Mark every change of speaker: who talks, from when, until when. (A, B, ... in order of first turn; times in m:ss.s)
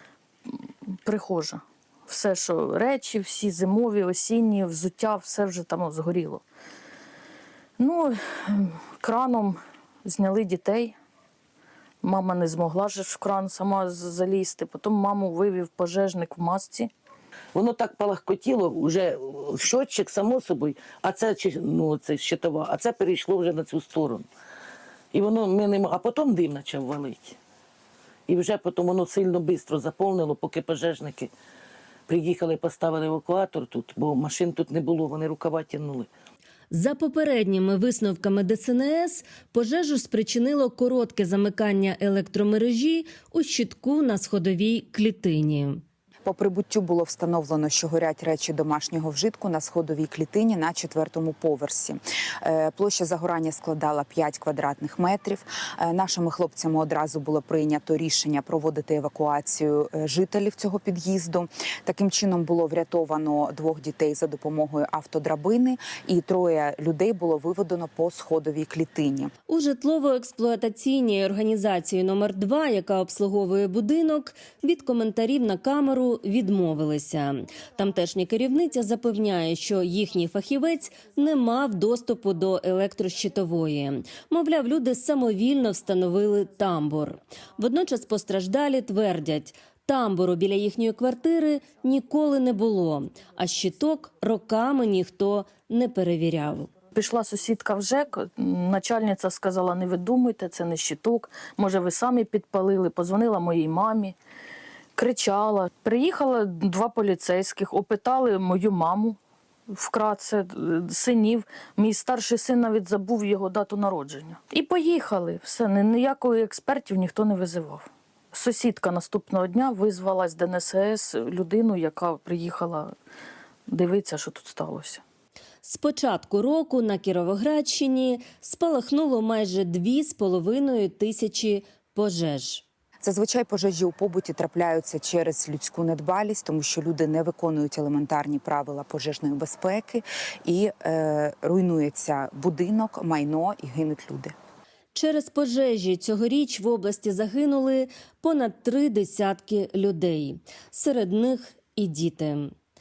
0:01.0-0:06.4 A
0:07.8-0:10.9 A
0:12.0-0:16.9 A
0:17.5-0:24.3 B
0:25.1-0:27.4 B
0:28.3-0:31.3 B
0:32.1-0:36.1 B
0:36.7-0:45.8 C
0:46.2-1:09.3 D
1:09.5-1:36.7 C
1:36.9-1:44.2 A
1:45.0-1:49.2 A
1:49.7-2:02.9 A
2:03.7-2:05.0 A
2:05.6-2:12.6 C
2:13.0-2:24.3 D
2:24.9-2:32.5 C